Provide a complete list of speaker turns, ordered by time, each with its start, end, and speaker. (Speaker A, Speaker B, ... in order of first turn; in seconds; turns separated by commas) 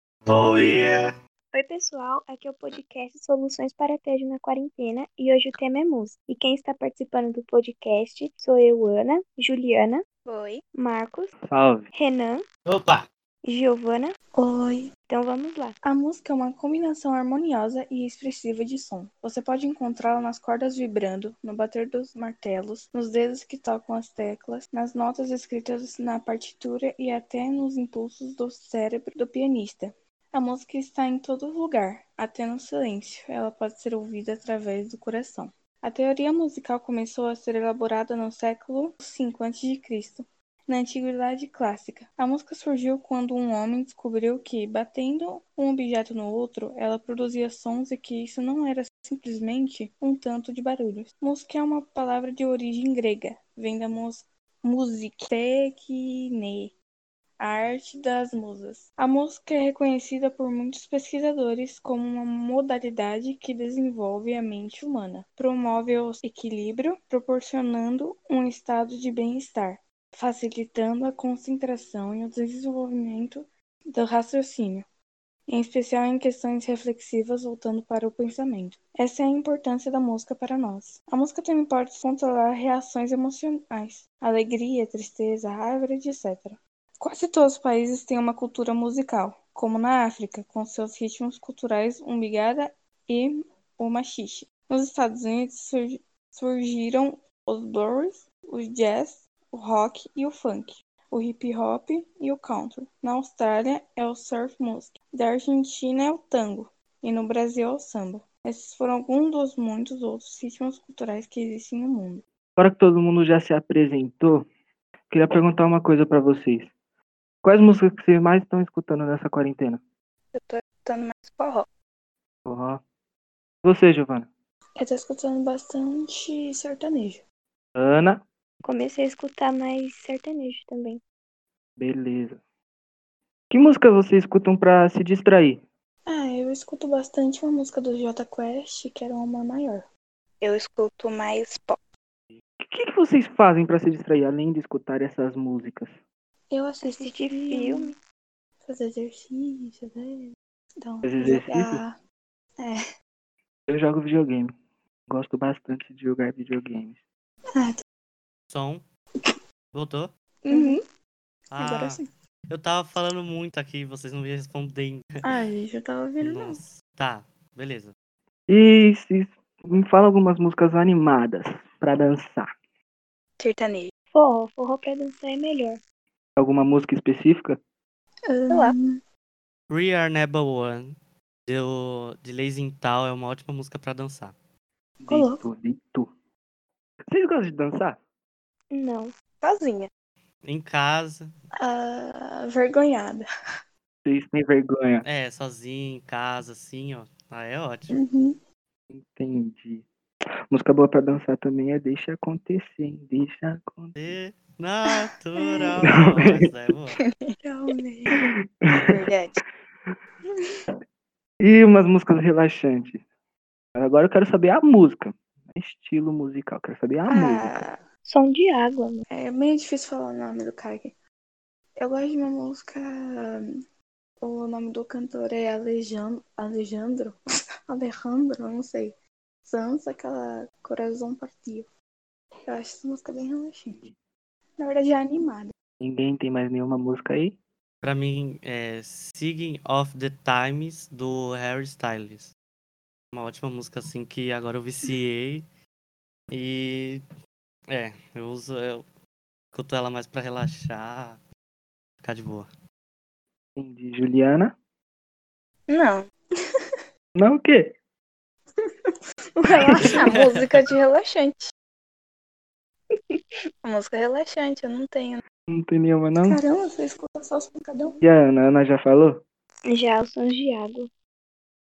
Speaker A: 0.3-1.1, Speaker B: 1.5-10.0, Speaker C: 10.2-10.6, Speaker B: 10.7-11.3, Speaker D: 11.5-11.9, Speaker B: 11.9-12.4, Speaker A: 12.7-13.1, Speaker B: 13.4-14.1, Speaker E: 14.3-14.9, Speaker B: 15.0-15.7, Speaker E: 15.8-56.8, Speaker E: 57.4-74.8, Speaker E: 75.5-112.2, Speaker D: 112.6-114.5, Speaker D: 115.1-116.7, Speaker D: 117.4-119.8, Speaker C: 120.3-121.6, Speaker D: 122.4-122.8, Speaker D: 123.6-124.3, Speaker E: 124.8-127.2, Speaker D: 127.8-128.2, Speaker B: 128.6-131.0, Speaker D: 131.8-132.4, Speaker D: 133.5-135.6, Speaker E: 136.1-139.9, Speaker C: 140.4-141.8, Speaker D: 142.6-145.9, Speaker E: 146.5-147.9, Speaker B: 146.9-147.9, Speaker E: 148.6-151.9, Speaker D: 151.0-151.8, Speaker D: 153.7-154.5, Speaker D: 155.1-157.0, Speaker A: 158.5-158.8, Speaker A: 159.7-160.1, Speaker E: 160.4-160.8, Speaker B: 160.5-160.8, Speaker A: 161.5-165.1, Speaker E: 161.5-162.1, Speaker E: 165.2-166.6, Speaker A: 166.2-167.9, Speaker D: 168.5-172.5, Speaker C: 173.4-173.9, Speaker B: 174.1-175.8, Speaker D: 176.4-177.6, Speaker E: 178.3-179.0, Speaker C: 178.5-178.7, Speaker A: 179.7-180.9, Speaker A: 181.5-184.3, Speaker D: 185.0-186.1, Speaker E: 185.1-185.4, Speaker D: 187.1-188.0, Speaker B: 188.7-189.1, Speaker C: 189.4-189.9, Speaker A: 190.4-191.3, Speaker E: 191.6-193.2, Speaker D: 194.0-195.0, Speaker A: 195.0-198.0, Speaker E: 197.9-198.4, Speaker D: 198.9-199.8, Speaker D: 200.5-204.1, Speaker A: 203.9-207.0, Speaker D: 205.8-206.5, Speaker C: 207.0-207.3, Speaker E: 207.4-208.2, Speaker C: 208.8-209.4, Speaker D: 211.4-213.0, Speaker D: 213.8-217.6, Speaker E: 217.1-217.8, Speaker B: 218.1-219.0, Speaker E: 219.1-220.9, Speaker E: 221.8-223.5, Speaker E: 224.2-231.7, Speaker E: 232.5-233.8, Speaker E: 234.6-235.5, Speaker D: 235.8-237.3, Speaker A: 237.8-242.3, Speaker A: 243.1-245.4, Speaker A: 246.3-247.0, Speaker A: 247.7-248.8, Speaker A: 249.5-251.2, Speaker A: 252.0-252.5, Speaker D: 253.6-254.5, Speaker C: 255.7-256.0, Speaker D: 257.1-257.7, Speaker E: 259.4-260.2, Speaker A: 259.8-260.6, Speaker C: 259.8-261.5, Speaker C: 263.6-265.2, Speaker D: 265.5-266.4, Speaker E: 266.2-268.0, Speaker D: 268.0-269.2, Speaker B: 269.6-270.9